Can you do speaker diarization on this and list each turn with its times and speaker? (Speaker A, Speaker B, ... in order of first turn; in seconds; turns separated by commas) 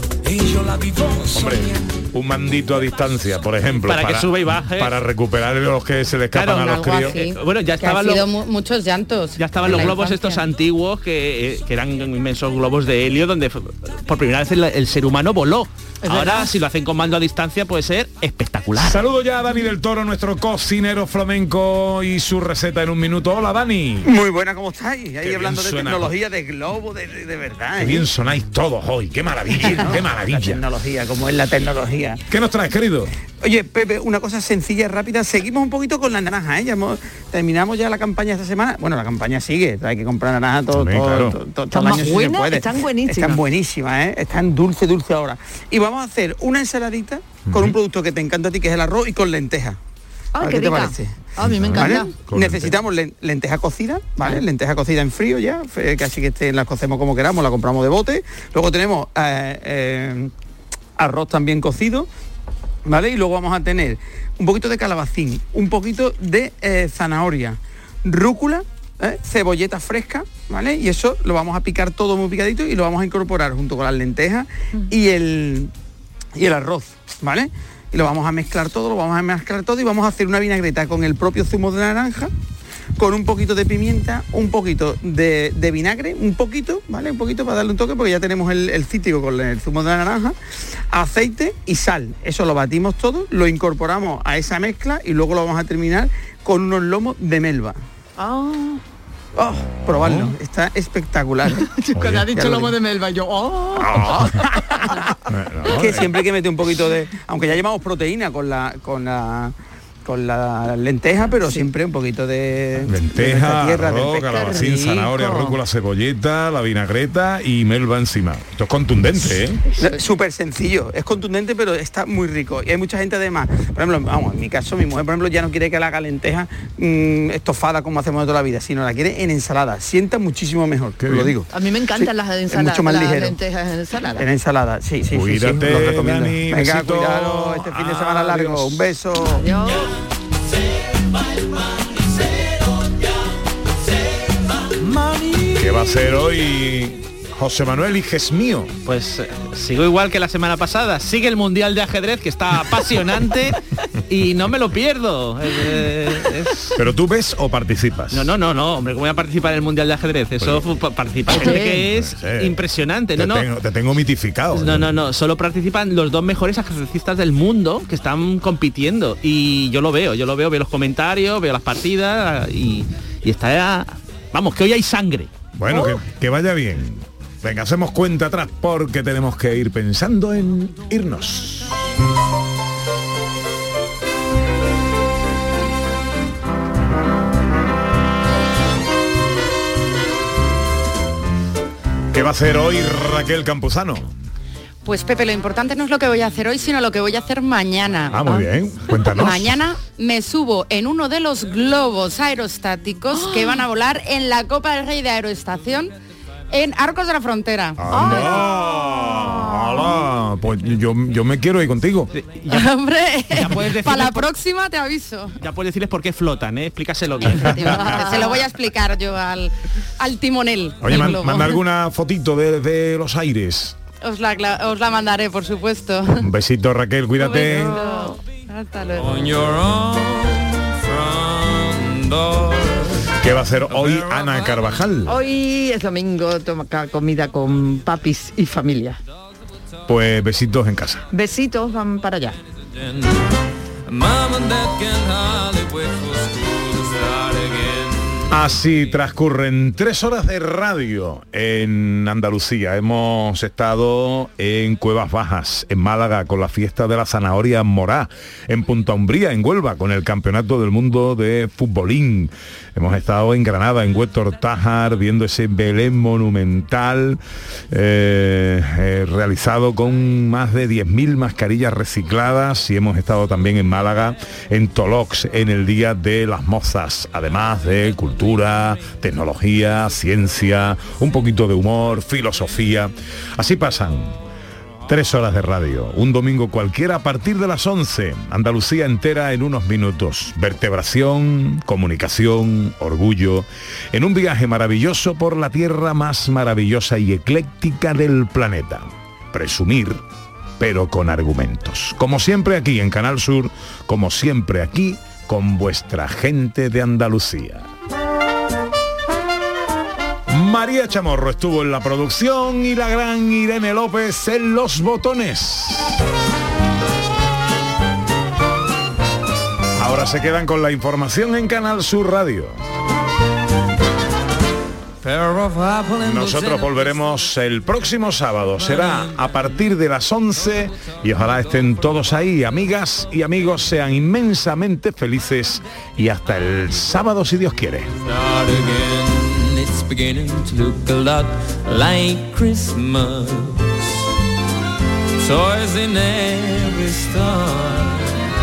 Speaker A: 1.3-7.2, Speaker B: 3.9-4.9, Speaker B: 6.3-8.3, Speaker C: 6.6-10.4, Speaker B: 9.4-19.0, Speaker A: 9.6-9.9, Speaker D: 16.0-16.5, Speaker A: 18.8-24.1, Speaker E: 24.0-28.1, Speaker A: 25.2-26.1, Speaker A: 27.8-30.6, Speaker E: 29.6-32.2, Speaker A: 32.3-33.1, Speaker E: 33.4-49.8, Speaker A: 40.7-41.4, Speaker D: 41.7-43.4, Speaker A: 47.5-47.8, Speaker D: 50.3-52.2, Speaker E: 50.4-51.1, Speaker A: 51.4-52.8, Speaker E: 51.8-60.3, Speaker E: 61.0-62.1, Speaker E: 62.9-75.7, Speaker E: 76.3-82.3, Speaker E: 83.0-90.3, Speaker E: 90.9-97.8, Speaker D: 98.2-98.8, Speaker E: 99.4-101.6, Speaker A: 99.6-100.3, Speaker D: 101.6-105.1, Speaker A: 101.9-102.3, Speaker E: 102.3-102.7, Speaker A: 103.8-104.5, Speaker A: 105.3-106.1, Speaker E: 105.7-109.5, Speaker E: 110.0-114.4, Speaker A: 112.9-119.6, Speaker D: 114.3-115.6, Speaker D: 119.7-120.0, Speaker E: 119.8-133.3, Speaker A: 131.0-131.3, Speaker D: 131.5-134.3, Speaker E: 134.2-139.5, Speaker A: 135.1-138.9, Speaker D: 139.3-139.9, Speaker A: 145.5-148.8, Speaker B: 148.8-156.7, Speaker A: 156.7-158.3, Speaker B: 158.1-163.4, Speaker A: 160.4-160.7, Speaker A: 161.3-162.6, Speaker D: 161.4-161.8, Speaker A: 163.2-165.0, Speaker B: 164.5-175.3, Speaker A: 175.6-181.8, Speaker A: 192.1-194.1, Speaker C: 194.8-198.4, Speaker A: 198.1-199.6, Speaker C: 199.1-205.9, Speaker D: 203.1-203.7, Speaker C: 206.5-208.3, Speaker A: 207.8-212.1, Speaker D: 207.9-210.0, Speaker B: 212.1-212.7, Speaker C: 212.5-215.3, Speaker B: 213.3-214.3, Speaker B: 215.4-217.8, Speaker C: 217.4-221.5, Speaker A: 217.5-218.0, Speaker D: 217.7-218.4, Speaker A: 220.8-223.8, Speaker C: 224.0-226.3, Speaker A: 226.2-227.9, Speaker D: 227.2-229.3, Speaker F: 228.9-233.1, Speaker A: 233.2-235.1, Speaker F: 233.7-234.7, Speaker D: 235.0-239.0, Speaker A: 239.8-241.1, Speaker D: 241.1-242.4, Speaker F: 242.7-243.3, Speaker F: 243.8-248.7, Speaker A: 248.3-267.2, Speaker A: 267.7-284.2, Speaker A: 284.9-300.0, Speaker A: 300.6-307.6, Speaker A: 310.3-316.0, Speaker A: 319.8-322.6, Speaker F: 325.0-327.0, Speaker A: 326.0-337.9, Speaker F: 328.6-329.7, Speaker F: 330.6-331.4, Speaker F: 338.0-343.9, Speaker F: 345.2-348.1